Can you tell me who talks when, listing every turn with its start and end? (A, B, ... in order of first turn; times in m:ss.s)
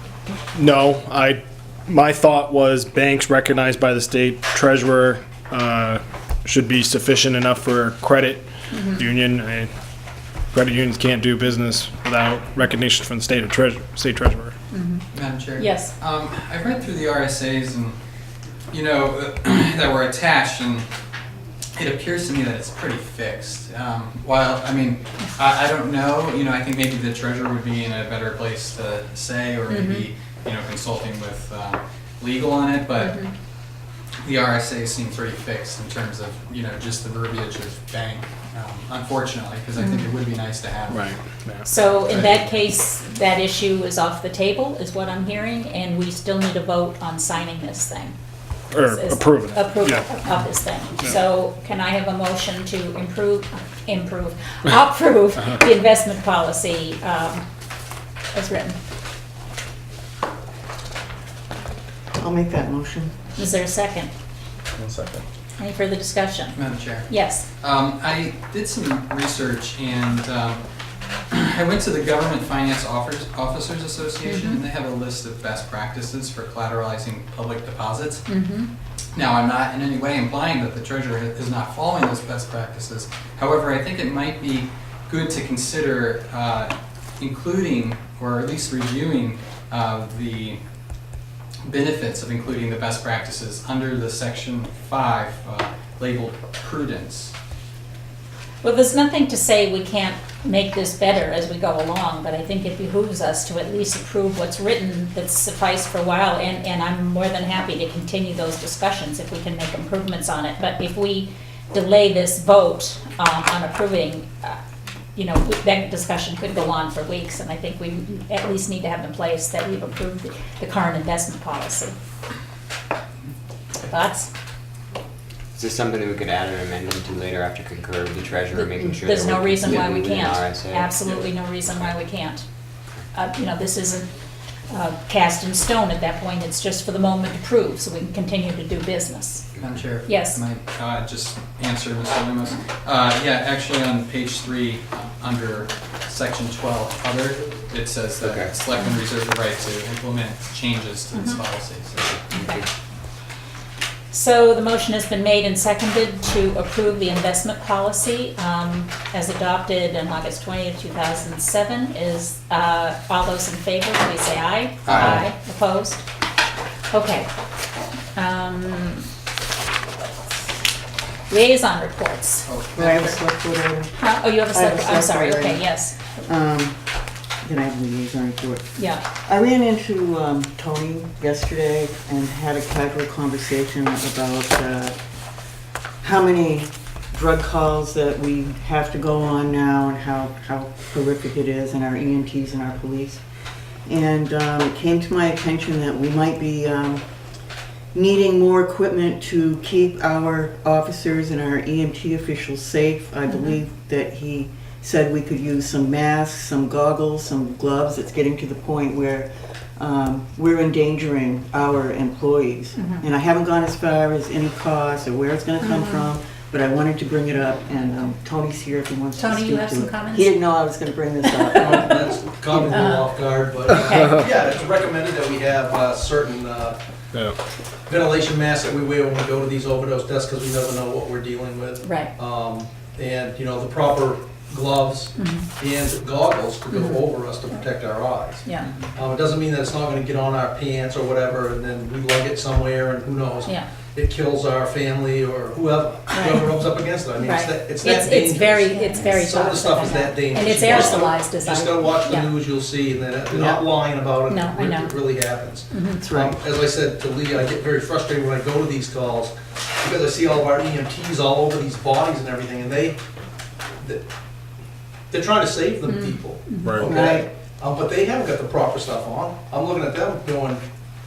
0:00.5-0:09.7 A
0:08.7-0:09.0 B
0:10.5-0:14.6 A
0:14.7-0:15.0 B
0:15.1-0:18.0 C
0:15.6-0:15.9 B
0:18.7-0:20.9 C
0:21.8-0:33.2 C
0:29.7-0:30.1 B
0:33.0-0:33.3 B
0:34.2-0:41.1 C
0:39.8-0:40.1 B
0:40.9-0:42.2 A
0:41.6-0:48.1 B
0:48.7-0:50.1 A
0:48.8-0:57.4 B
0:58.3-0:58.8 B
1:02.2-1:03.1 D
1:03.4-1:04.1 B
1:04.8-1:05.2 A
1:05.6-1:06.6 B
1:06.5-1:10.6 C
1:07.1-1:07.5 B
1:11.3-1:18.2 C
1:14.2-1:14.6 B
1:18.3-1:18.7 B
1:19.1-1:30.6 C
1:31.6-1:37.3 C
1:38.6-1:54.6 B
1:55.1-2:01.9 B
2:03.8-2:04.3 B
2:05.6-2:10.9 E
2:08.5-2:12.4 B
2:13.1-2:14.1 B
2:14.7-2:19.4 B
2:19.6-2:32.3 C
2:20.0-2:20.4 B
2:28.2-2:28.5 E
2:31.1-2:31.4 B
2:32.3-2:32.6 E
2:32.3-2:32.6 B
2:34.1-2:46.0 B
2:44.8-2:45.3 C
2:46.9-2:47.3 B
2:48.2-2:49.1 B
2:51.3-2:53.0 B
2:52.4-2:53.1 C
2:52.7-2:53.9 D
2:54.0-2:56.0 B
2:54.5-2:55.6 D
2:56.2-2:56.8 D
2:57.4-2:58.7 D
2:58.8-2:59.0 B
2:59.2-3:04.9 D
3:06.0-3:13.2 D
3:13.8-3:17.0 D
3:17.9-3:42.0 D
3:23.3-3:23.6 B
3:32.8-3:33.0 B
3:35.6-3:36.1 B
3:39.2-3:40.4 B
3:41.6-3:46.8 F
3:41.6-3:41.8 B
3:42.7-3:43.1 B
3:43.7-3:44.2 B
3:47.9-4:23.0 F
3:51.8-3:52.1 B
3:55.2-3:55.5 B
3:56.7-3:57.0 B
3:58.4-3:58.7 B
4:06.1-4:06.5 B
4:07.2-4:12.3 B
4:10.7-4:11.0 E
4:13.3-4:13.6 D
4:14.3-4:14.9 B
4:15.7-4:16.0 B
4:16.0-4:16.4 D
4:23.8-4:24.0 F
4:25.1-4:30.6 F
4:25.9-4:26.8 B
4:26.6-4:27.0 A
4:26.8-4:27.3 D